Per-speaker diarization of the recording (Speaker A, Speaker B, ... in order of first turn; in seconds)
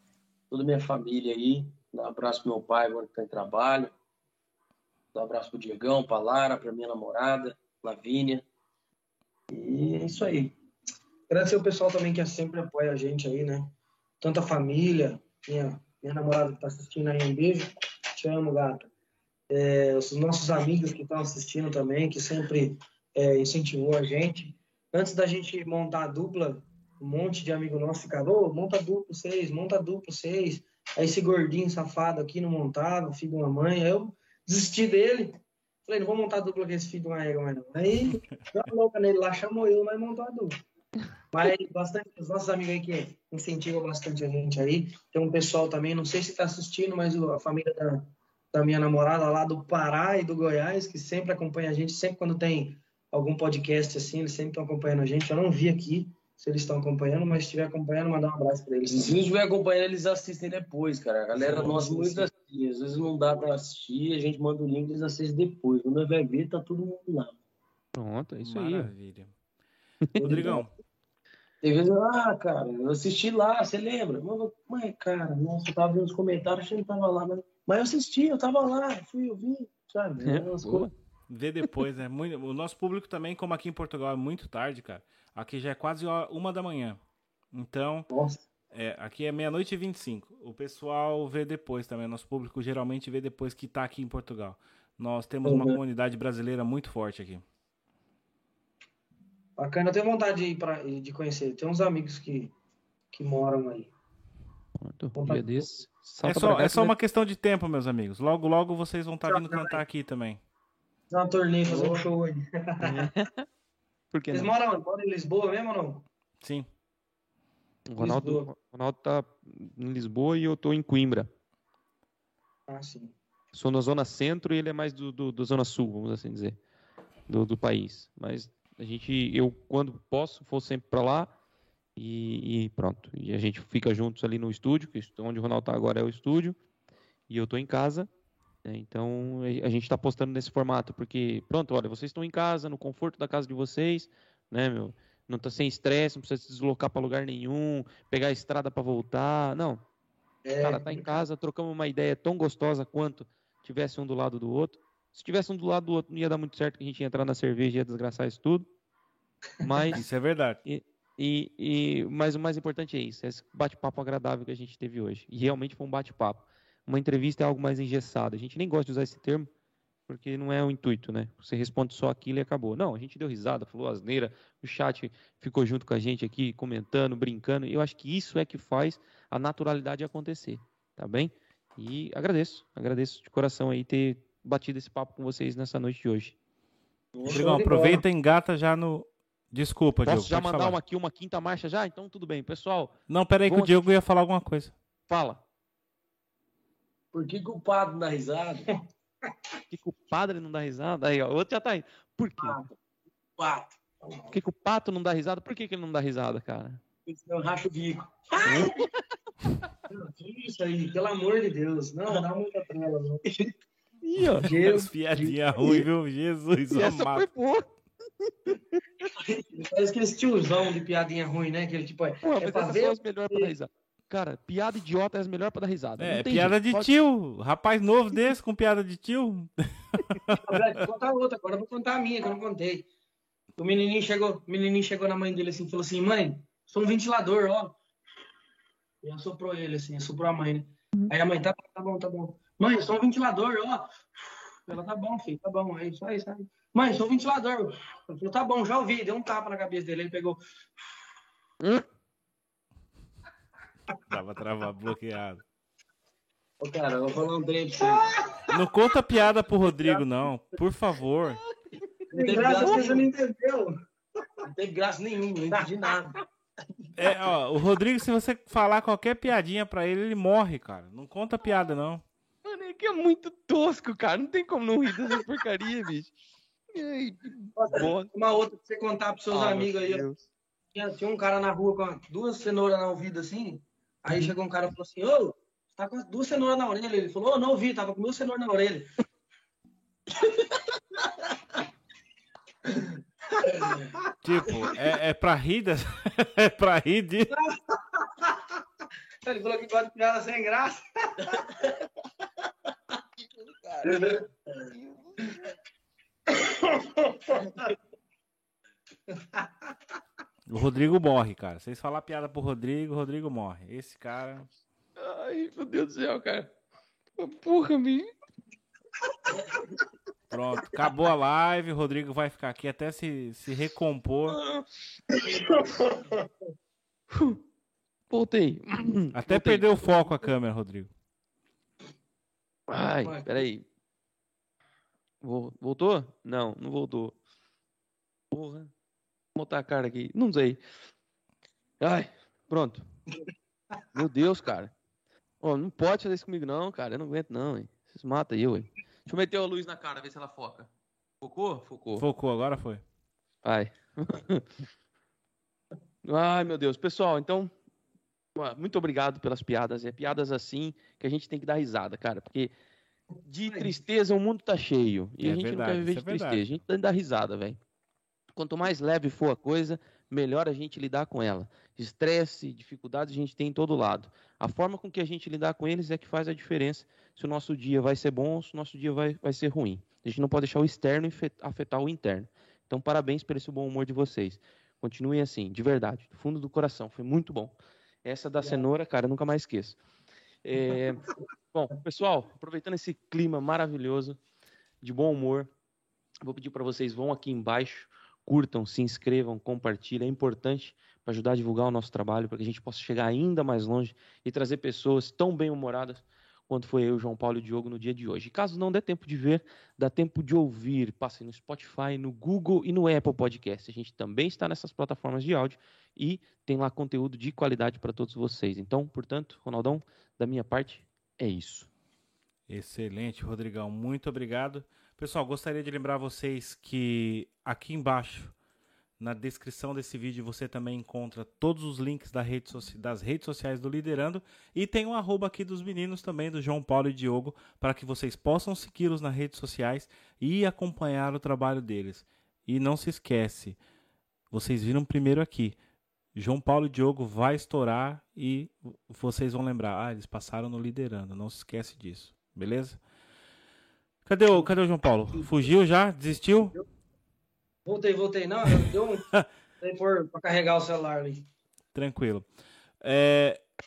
Speaker A: 0.5-3.9, 5.1-8.4, 9.5-10.6, 58.9-67.4, 71.6-80.9, 187.1-187.6, 197.1-198.7, 202.4-202.7, 203.4-203.8, 207.1-208.8, 213.3-213.5, 256.6-258.2, 262.1-263.1, 264.4-266.1
Speaker B: 11.3-18.9, 19.5-40.6, 41.3-59.2, 61.6-62.3, 70.2-70.6, 88.1-88.4, 95.5-95.8, 99.6-102.5, 103.1-103.9, 105.2-105.8, 109.2-109.8, 111.1-113.1, 114.3-116.0, 118.0-118.5, 122.7-123.1, 150.4-151.1, 187.2-188.0, 204.0-204.4, 209.9-213.2, 214.4-215.8, 219.3-223.5, 230.3-232.9, 233.6-237.8, 239.0-244.1, 244.7-250.4, 257.8-258.6, 262.1-263.8, 265.6-266.0, 277.6-280.1, 280.7-288.9, 292.6-294.0, 297.3-298.6, 299.2-301.7, 303.9-304.2, 306.3-307.6, 309.2-309.5, 325.7-326.0, 333.0-333.4, 363.5-363.7, 457.6-459.1, 459.6-461.3
Speaker C: 61.4-61.8, 68.4-69.3, 70.2-70.7, 81.3-87.0, 87.5-88.1, 88.7-97.4, 106.2-110.4, 116.4-116.7, 159.9-160.6, 187.3-190.8, 193.1-194.7, 214.2-217.3, 226.0-230.6, 254.1-255.4, 258.5-261.4, 266.9-272.0, 294.2-297.4, 310.5-314.5, 320.3-324.4, 329.1-330.9, 352.0-352.8, 365.2-366.6, 422.5-428.3, 429.0-443.6, 444.3-445.6, 446.1-452.8, 454.0-456.6, 458.5-459.2, 461.7-462.2, 462.8-463.4
Speaker D: 67.9-68.9, 80.2-80.9, 104.8-106.9, 112.8-113.5, 114.1-114.5, 117.9-121.3, 123.5-126.6, 127.3-131.3, 131.9-136.6, 137.3-138.1, 138.6-149.8, 150.6-158.7, 159.6-160.0, 160.6-169.5, 170.1-186.4, 190.0-192.9, 193.4-193.7, 195.1-195.4, 199.7-202.6, 204.3-206.8, 208.4-209.0, 214.0-214.5, 216.7-219.0, 222.2-226.9, 272.4-276.1, 276.7-278.1, 279.3-280.2, 303.3-305.3, 315.0-316.5, 317.2-318.1, 324.3-324.6, 327.1-327.4, 328.1-330.0, 332.7-333.6, 335.2-337.2, 338.3-338.7, 339.4-340.6, 341.8-342.9, 343.9-344.7, 345.4-350.7, 351.2-352.1, 353.4-354.5, 356.0-357.5, 358.4-362.5, 363.2-367.6, 368.3-389.8, 390.4-394.2, 394.8-395.5, 396.2-421.7